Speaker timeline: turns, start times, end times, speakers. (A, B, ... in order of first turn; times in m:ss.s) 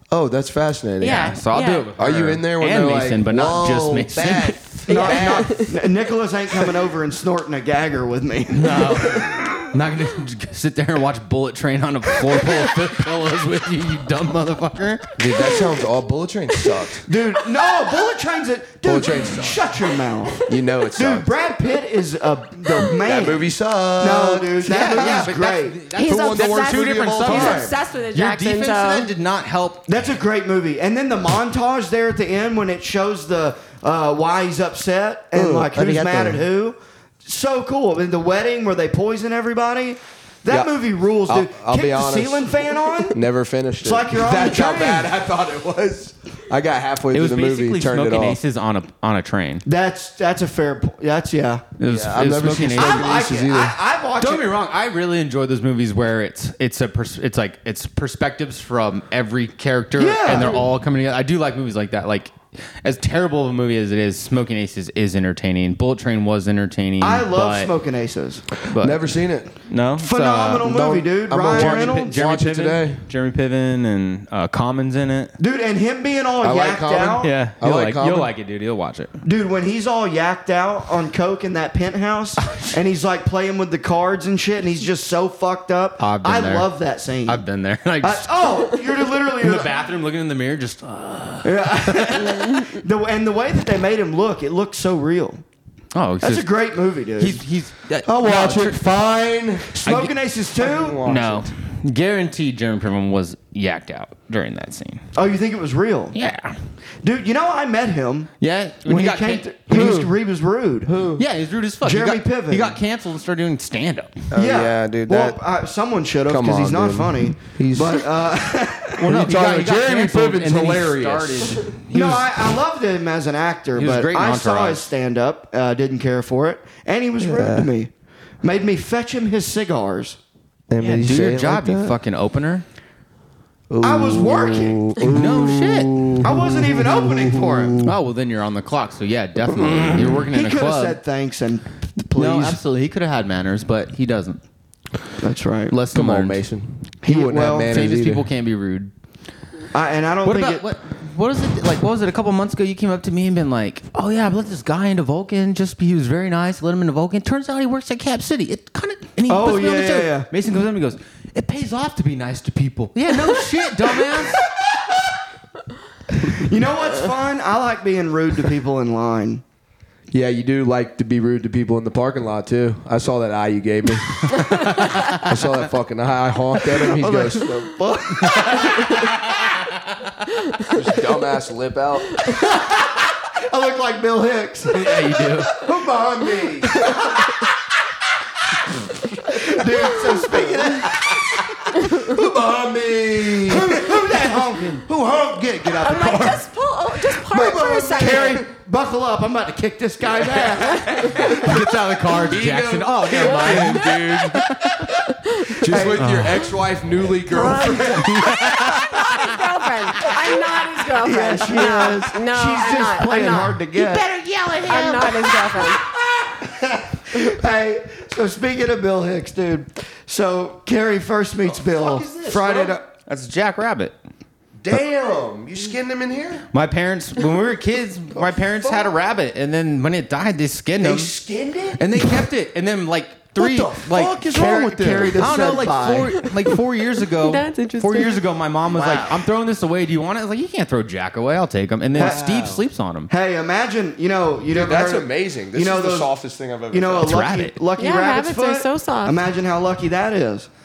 0:00.1-0:01.4 A
0:01.0-0:01.9 B
0:01.0-0:04.6 C
0:02.0-0:05.6 A
0:04.9-0:05.7 B
0:04.9-0:09.3 D
0:08.5-0:15.2 C
0:15.2-0:17.1 A
0:17.0-0:23.4 D
0:18.8-0:19.6 A
0:20.4-0:21.3 A
0:23.0-0:25.4 A
0:24.0-0:25.8 D
0:24.7-0:30.1 C
0:25.9-0:27.8 A
0:25.9-0:29.1 B
0:29.9-0:43.2 D
0:35.3-0:36.4 A
0:40.5-0:48.4 A
0:43.8-0:45.1 D
0:47.1-0:49.6 C
0:49.6-0:51.6 D
0:51.8-0:53.1 C
0:51.8-0:53.8 A
0:52.7-0:54.5 D
0:54.2-1:07.7 C
1:00.0-1:00.6 D
1:07.0-1:08.5 D
1:08.7-1:09.0 C
1:08.7-1:09.5 A
1:09.5-1:10.7 C
1:10.0-1:12.1 D
1:10.6-1:13.0 A
1:11.3-1:15.4 C
1:15.4-1:17.3 D
1:16.4-1:18.3 A
1:17.2-1:19.1 C
1:19.2-1:27.4 D
1:22.4-1:22.7 C
1:26.0-1:26.7 C
1:27.2-1:28.4 C
1:28.0-1:29.7 D
1:29.4-1:32.4 C
1:31.4-1:35.4 D
1:35.9-1:36.5 C
1:36.2-1:37.4 D
1:37.2-1:38.8 C
1:38.0-1:41.5 A
1:39.7-1:41.0 D
1:39.8-1:40.1 C
1:41.0-1:45.0 C
1:45.1-1:46.1 D
1:46.1-1:46.5 C
1:47.0-1:48.3 D
1:48.4-1:50.1 C
1:48.8-1:50.9 D
1:49.7-1:50.1 A
1:50.8-1:51.2 A
1:51.2-1:54.2 C
1:51.8-1:52.8 D
1:54.3-1:55.4 A
1:54.3-1:59.1 D
1:56.2-1:58.2 A
1:59.0-2:02.5 C
1:59.0-2:01.7 A
2:01.9-2:07.9 D
2:03.7-2:04.9 C
2:07.2-2:07.7 A
2:08.4-2:10.2 D
2:10.7-2:12.0 A
2:10.8-2:12.6 C
2:13.7-2:17.9 A
2:13.8-2:15.0 D
2:15.1-2:16.0 C
2:16.2-2:17.8 D
2:17.8-2:21.0 C
2:19.5-2:20.2 A
2:20.3-2:22.6 D
2:22.1-2:24.4 C
2:25.2-2:25.7 D
2:25.7-2:26.4 C
2:25.9-2:28.3 A
2:27.0-2:27.8 D
2:27.7-2:28.9 C
2:29.7-2:30.6 D
2:30.2-2:44.4 C
2:39.3-2:40.3 D
2:46.3-2:49.4 D
2:50.1-2:57.8 A
2:54.3-2:55.3 C
2:56.8-2:59.0 D
2:58.3-2:59.7 C
3:00.7-3:02.2 A
3:03.3-3:05.2 D
3:04.7-3:05.5 C
3:05.5-3:07.0 A
3:09.3-3:11.4 D
3:11.6-3:16.5 A
3:13.1-3:14.8 D
3:15.8-3:18.5 B
3:17.3-3:18.2 A
3:17.4-3:21.6 D
3:21.2-3:24.9 C
3:22.1-3:24.4 A
3:23.3-3:24.0 B
3:25.6-3:28.7 A
3:25.6-3:26.2 D
3:25.9-3:26.5 C
3:27.3-3:33.6 B
3:28.0-3:29.3 C
3:31.0-3:34.0 D
3:33.7-3:35.6 C
3:34.6-3:35.8 B
3:37.1-3:42.8 D
3:41.4-3:42.8 A
3:43.0-3:44.0 C
3:44.6-3:46.4 A
3:46.5-3:51.1 C
3:48.1-3:48.9 A
3:50.8-3:51.9 A
3:51.8-3:54.3 C
3:53.4-3:56.2 A
3:54.3-3:55.5 D
3:55.1-4:03.1 C
3:57.2-3:58.2 B
4:01.9-4:06.1 D
4:02.0-4:02.6 A
4:04.5-4:07.2 A
4:06.7-4:10.5 D
4:07.0-4:07.6 C
4:07.8-4:09.2 B